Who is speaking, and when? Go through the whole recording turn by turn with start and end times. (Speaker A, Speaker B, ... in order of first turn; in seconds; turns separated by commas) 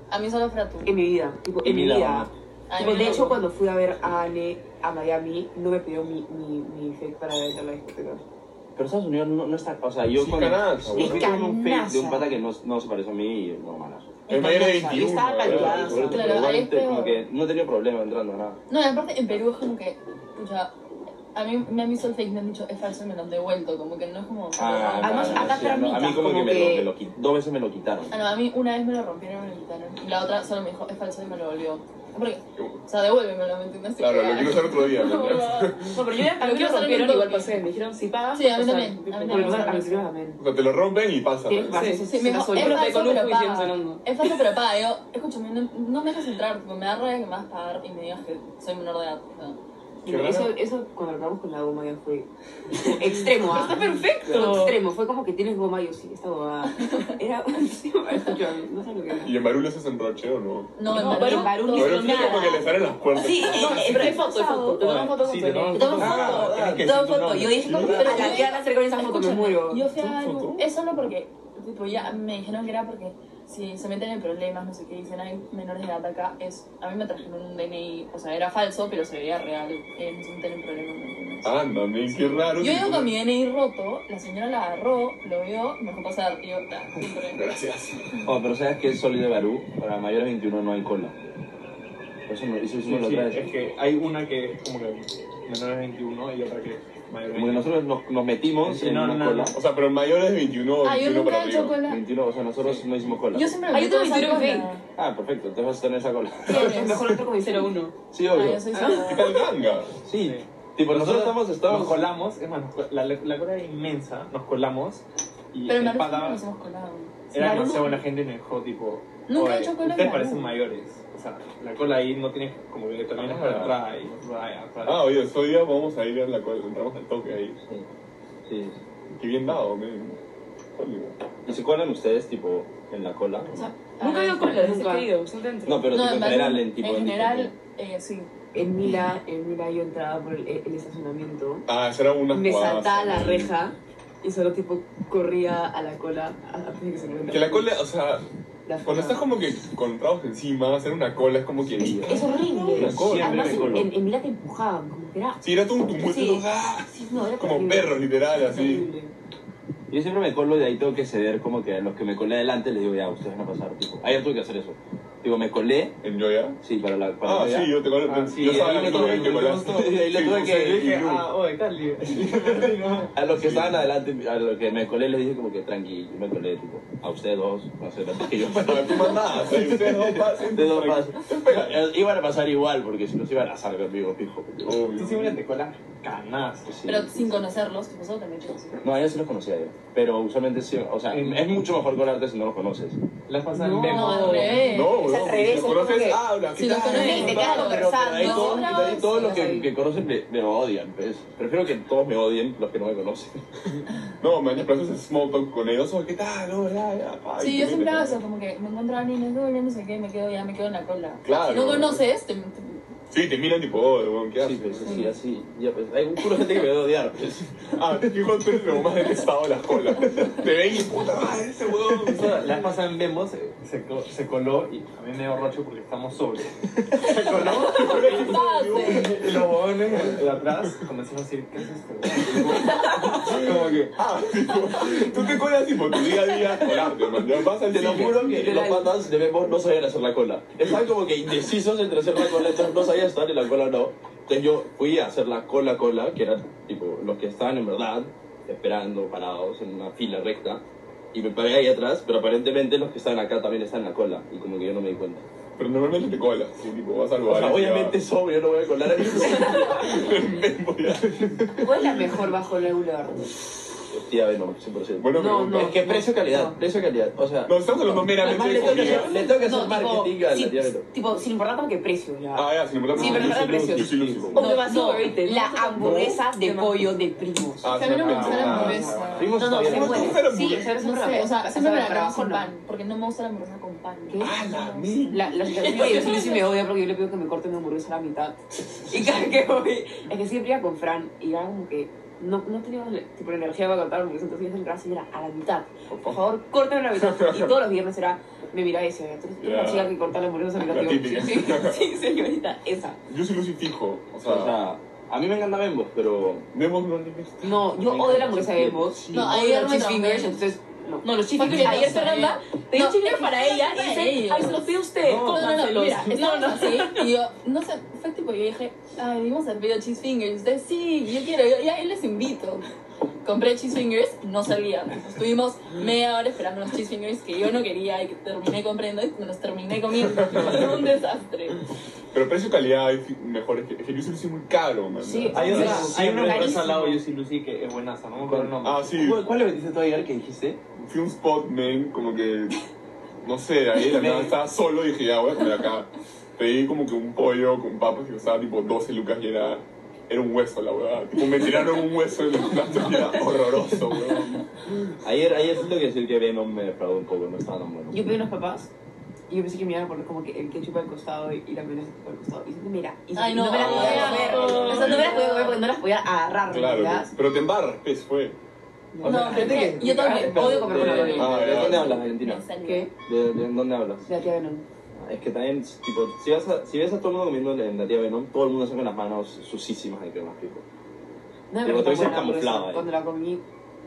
Speaker A: 0.1-0.9, Speaker B: 0.8-8.2, Speaker C: 1.6-2.3, Speaker A: 2.7-3.4, Speaker D: 2.8-3.4, Speaker C: 8.8-14.2, Speaker E: 10.1-11.3, Speaker B: 10.9-12.4, Speaker E: 14.3-16.2, Speaker B: 14.3-16.5, Speaker C: 15.4-18.6, Speaker A: 16.1-17.2, Speaker A: 18.7-20.7, Speaker A: 21.4-25.7, Speaker C: 24.6-28.1, Speaker B: 25.0-26.9, Speaker A: 28.1-37.6, Speaker E: 34.0-36.0, Speaker D: 35.3-40.0, Speaker A: 38.3-40.1, Speaker B: 39.3-40.4, Speaker E: 40.4-41.8, Speaker B: 41.5-43.1, Speaker D: 41.7-44.0, Speaker A: 42.0-49.6, Speaker B: 50.0-59.3, Speaker E: 50.0-50.5, Speaker D: 53.4-54.8, Speaker E: 59.2-60.8, Speaker A: 60.8-62.6, Speaker D: 60.9-62.4, Speaker B: 60.9-62.6, Speaker E: 61.7-63.9, Speaker B: 63.2-64.8, Speaker D: 63.3-66.9, Speaker A: 63.5-64.2, Speaker F: 64.8-68.1, Speaker B: 65.7-69.9, Speaker C: 66.0-66.9, Speaker E: 67.7-68.1, Speaker A: 67.8-81.5, Speaker D: 67.9-69.6, Speaker E: 70.0-70.7, Speaker E: 81.4-83.1, Speaker A: 82.6-87.4, Speaker E: 87.3-88.0, Speaker C: 88.2-91.2, Speaker C: 92.3-93.5, Speaker F: 92.8-97.7, Speaker C: 97.3-99.5, Speaker F: 98.6-99.5, Speaker E: 99.5-101.8, Speaker A: 100.8-102.0, Speaker C: 101.9-103.6, Speaker F: 102.6-103.1, Speaker A: 103.3-104.8, Speaker D: 103.7-104.7, Speaker B: 103.7-104.7, Speaker C: 105.0-107.0, Speaker B: 106.5-108.0, Speaker A: 106.5-107.1, Speaker C: 108.1-108.7, Speaker A: 108.3-109.5, Speaker B: 108.8-109.2, Speaker E: 109.0-109.9, Speaker C: 110.0-112.1, Speaker F: 110.1-116.4, Speaker A: 115.7-117.3, Speaker F: 117.3-125.1, Speaker B: 117.3-118.0, Speaker A: 119.3-120.6, Speaker E: 123.2-123.8, Speaker E: 124.8-127.6, Speaker C: 128.5-128.8, Speaker E: 129.1-130.2, Speaker E: 130.8-131.2, Speaker C: 131.5-133.8, Speaker B: 133.6-135.1, Speaker D: 133.9-135.9, Speaker A: 134.1-134.7, Speaker C: 135.7-137.5, Speaker A: 135.9-138.3, Speaker B: 138.5-141.7, Speaker E: 141.7-143.5, Speaker B: 142.3-147.7, Speaker E: 147.3-148.2, Speaker B: 148.7-149.3, Speaker E: 148.8-153.5, Speaker C: 151.8-152.2, Speaker B: 152.1-155.4, Speaker C: 152.8-153.9, Speaker E: 155.4-158.9, Speaker B: 155.9-159.1, Speaker C: 159.9-166.0, Speaker E: 166.0-166.6, Speaker C: 166.6-167.8, Speaker E: 167.2-171.3, Speaker F: 168.1-173.2, Speaker C: 168.4-170.9, Speaker C: 172.2-172.6, Speaker C: 173.1-184.8, Speaker E: 173.3-173.8, Speaker E: 178.4-181.8, Speaker E: 184.6-185.4, Speaker F: 184.9-186.8, Speaker C: 186.7-187.3, Speaker A: 186.9-188.8, Speaker C: 188.8-193.0, Speaker F: 191.1-191.6, Speaker F: 193.3-194.7, Speaker B: 193.5-196.3, Speaker A: 193.9-195.0, Speaker E: 194.7-197.7, Speaker A: 196.5-199.1, Speaker B: 196.8-199.7, Speaker D: 197.1-197.6, Speaker C: 197.2-203.4, Speaker E: 204.2-208.2, Speaker A: 207.4-212.8, Speaker E: 211.2-212.0, Speaker E: 213.1-215.0, Speaker C: 214.4-217.5, Speaker A: 214.8-215.1, Speaker E: 217.8-222.7, Speaker F: 221.9-233.9, Speaker E: 227.2-230.8, Speaker A: 227.4-229.1, Speaker E: 232.3-232.6, Speaker E: 233.2-238.6, Speaker C: 237.6-255.2, Speaker B: 238.3-239.0, Speaker E: 255.6-258.0, Speaker C: 257.3-260.0, Speaker E: 259.3-262.2, Speaker B: 261.6-263.2, Speaker C: 263.9-270.9, Speaker E: 265.0-265.7, Speaker B: 265.1-266.6, Speaker E: 267.5-269.1, Speaker B: 268.2-282.5, Speaker E: 272.4-274.4, Speaker C: 273.0-274.4, Speaker D: 273.1-273.5, Speaker D: 274.3-276.8, Speaker E: 275.8-276.2, Speaker E: 277.6-279.0, Speaker A: 277.7-279.4, Speaker F: 278.0-279.3, Speaker C: 278.2-280.2, Speaker E: 279.6-280.7, Speaker A: 280.6-286.4, Speaker B: 284.1-284.4, Speaker E: 284.2-285.3, Speaker B: 285.1-303.0, Speaker E: 295.9-296.2, Speaker E: 297.0-297.6, Speaker E: 299.4-300.0, Speaker E: 300.6-301.8, Speaker E: 303.1-304.6, Speaker C: 304.2-306.5, Speaker E: 306.5-307.8, Speaker B: 307.4-312.4, Speaker C: 307.8-309.0, Speaker A: 309.1-310.4, Speaker D: 311.0-317.1, Speaker A: 311.4-322.6, Speaker A: 323.2-331.6, Speaker E: 330.2-330.9, Speaker E: 332.1-336.0, Speaker B: 335.0-337.0, Speaker F: 335.3-339.1, Speaker C: 335.5-336.4, Speaker C: 338.2-340.6, Speaker E: 338.6-339.2, Speaker E: 340.8-342.6, Speaker E: 343.2-354.5, Speaker C: 343.8-344.4, Speaker C: 355.0-358.0, Speaker B: 357.9-358.7, Speaker B: 359.3-367.1, Speaker A: 363.2-365.6, Speaker E: 363.6-365.1, Speaker D: 364.0-364.7, Speaker E: 366.5-368.4, Speaker B: 368.9-371.7, Speaker C: 369.0-372.5, Speaker A: 369.0-372.9, Speaker E: 371.1-372.0, Speaker B: 372.6-372.9, Speaker C: 373.0-374.1, Speaker B: 374.1-374.6, Speaker C: 375.0-380.6, Speaker B: 381.5-383.4, Speaker C: 381.6-382.9